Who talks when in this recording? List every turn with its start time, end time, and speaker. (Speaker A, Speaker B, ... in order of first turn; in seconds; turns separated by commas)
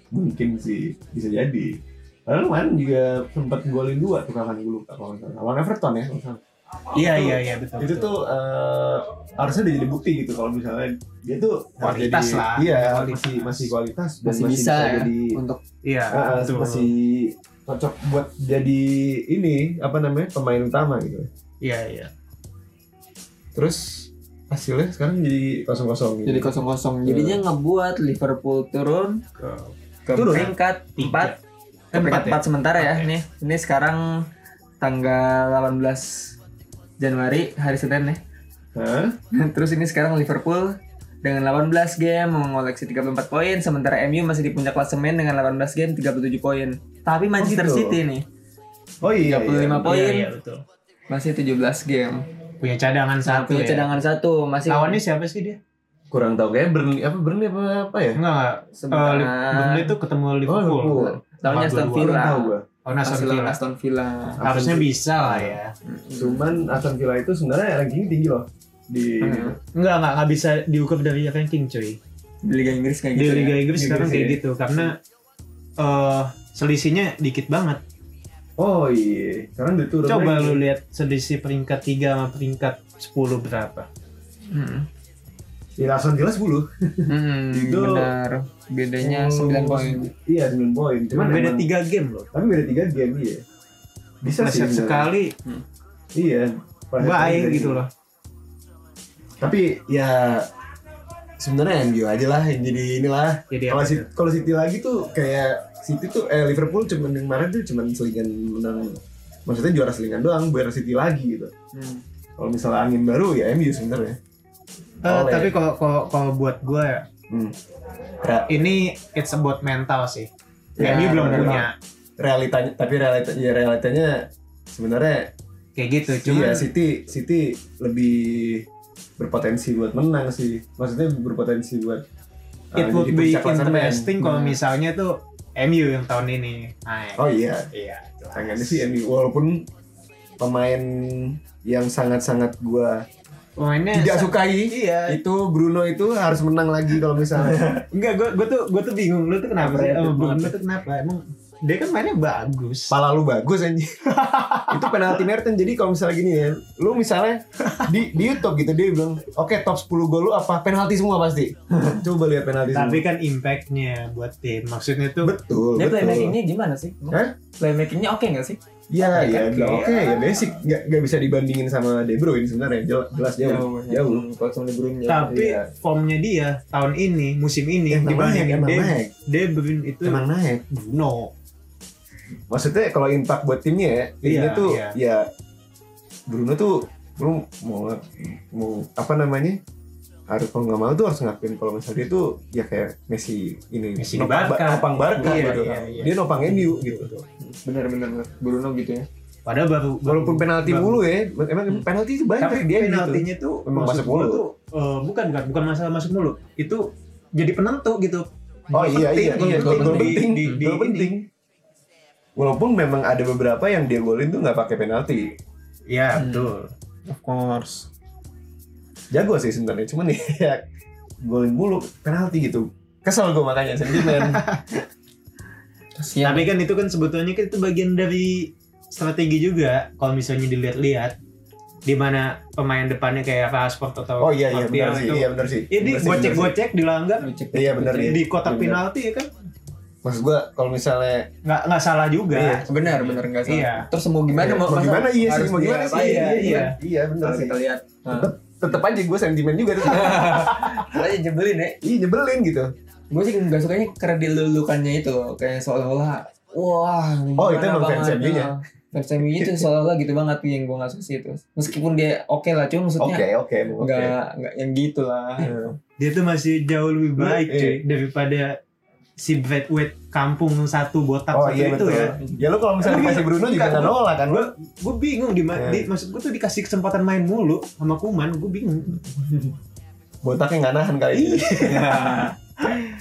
Speaker A: 0.1-6.4, Speaker B: 6.9-8.1, Speaker A: 7.0-15.4, Speaker B: 11.8-13.7, Speaker C: 14.2-15.6, Speaker B: 15.8-16.9, Speaker A: 16.1-21.3, Speaker B: 21.6-22.1, Speaker A: 23.5-26.5, Speaker C: 26.2-29.2, Speaker A: 27.1-27.4, Speaker B: 29.4-31.4, Speaker C: 30.1-31.3, Speaker A: 30.1-30.5, Speaker B: 31.9-33.1, Speaker C: 31.9-34.0, Speaker C: 34.8-36.4, Speaker C: 37.0-38.2, Speaker A: 38.7-39.1, Speaker C: 39.3-40.7, Speaker C: 41.2-48.2, Speaker A: 47.4-48.0, Speaker A: 49.0-49.9, Speaker C: 49.2-50.3, Speaker B: 49.8-50.6, Speaker C: 51.1-52.2, Speaker B: 52.6-54.0, Speaker C: 53.2-55.0, Speaker B: 54.6-55.6, Speaker A: 56.1-58.2, Speaker B: 58.1-62.2, Speaker C: 58.7-59.9, Speaker A: 60.4-61.2, Speaker C: 60.9-62.5, Speaker A: 62.0-62.6, Speaker B: 62.8-63.6, Speaker C: 63.0-64.4, Speaker A: 64.4-65.6, Speaker B: 64.4-65.7, Speaker C: 65.8-66.8, Speaker A: 66.2-69.5, Speaker C: 69.2-69.5, Speaker B: 69.7-72.0, Speaker C: 72.4-73.8, Speaker B: 73.2-75.0, Speaker A: 73.7-74.4, Speaker B: 75.8-77.8, Speaker A: 78.6-80.6, Speaker B: 80.0-83.9, Speaker C: 84.5-84.9, Speaker A: 85.8-88.1, Speaker C: 87.1-90.1, Speaker A: 89.0-91.7, Speaker B: 91.1-92.3, Speaker A: 92.3-93.4, Speaker A: 94.2-95.1, Speaker B: 94.2-95.3, Speaker A: 96.1-97.8, Speaker B: 97.0-97.9, Speaker A: 99.4-100.5, Speaker A: 101.4-111.5, Speaker B: 103.5-104.1, Speaker C: 111.7-112.0, Speaker A: 112.4-114.2, Speaker A: 115.0-115.5, Speaker B: 115.0-117.0, Speaker A: 117.3-117.5, Speaker A: 118.2-118.7, Speaker B: 118.5-121.7, Speaker A: 120.8-125.3, Speaker C: 120.8-121.6, Speaker B: 125.8-126.7, Speaker A: 126.0-128.7, Speaker A: 129.2-132.0, Speaker A: 132.7-134.5, Speaker B: 132.7-138.8, Speaker C: 134.2-134.5, Speaker A: 137.2-137.7, Speaker A: 138.3-139.7, Speaker A: 140.4-143.0, Speaker B: 143.6-145.2, Speaker A: 143.9-147.8, Speaker B: 147.4-153.0, Speaker A: 149.6-150.6, Speaker A: 152.9-154.0, Speaker B: 154.1-155.0, Speaker A: 154.7-163.0, Speaker B: 157.7-158.1, Speaker B: 162.7-165.3, Speaker A: 165.2-166.3, Speaker C: 165.8-168.6, Speaker A: 168.9-174.2, Speaker B: 169.0-170.6, Speaker C: 173.4-175.6, Speaker B: 175.1-181.3, Speaker A: 177.9-179.1, Speaker A: 180.0-180.6, Speaker A: 182.5-185.3, Speaker B: 184.2-185.0, Speaker A: 186.3-189.6, Speaker A: 190.3-197.1, Speaker B: 194.0-197.3, Speaker C: 197.4-199.0, Speaker B: 199.4-201.0, Speaker A: 200.0-204.4, Speaker B: 202.4-211.1, Speaker A: 208.7-211.3, Speaker C: 209.3-210.2, Speaker A: 212.3-215.3, Speaker B: 215.9-217.9, Speaker C: 216.2-216.5, Speaker A: 219.1-220.6, Speaker A: 221.2-224.4, Speaker B: 224.0-224.8, Speaker C: 226.0-226.5, Speaker B: 226.2-231.1, Speaker B: 231.8-237.3, Speaker A: 234.2-236.6, Speaker C: 237.2-238.2, Speaker A: 237.5-238.8, Speaker B: 238.0-239.3, Speaker A: 240.0-241.3, Speaker B: 241.4-243.9, Speaker A: 242.3-242.7, Speaker C: 242.7-248.3, Speaker A: 244.3-247.6, Speaker B: 245.9-246.8, Speaker A: 248.1-251.0, Speaker C: 249.8-251.8, Speaker A: 251.8-252.7, Speaker C: 253.1-263.2, Speaker A: 257.4-258.5, Speaker A: 259.2-259.7, Speaker A: 263.0-264.1, Speaker C: 263.8-265.7, Speaker A: 265.4-265.7, Speaker B: 266.0-268.6, Speaker A: 267.1-267.8, Speaker B: 269.2-272.1, Speaker A: 271.3-274.5, Speaker B: 272.8-279.0, Speaker A: 275.5-275.9, Speaker A: 280.2-282.1, Speaker C: 281.6-282.3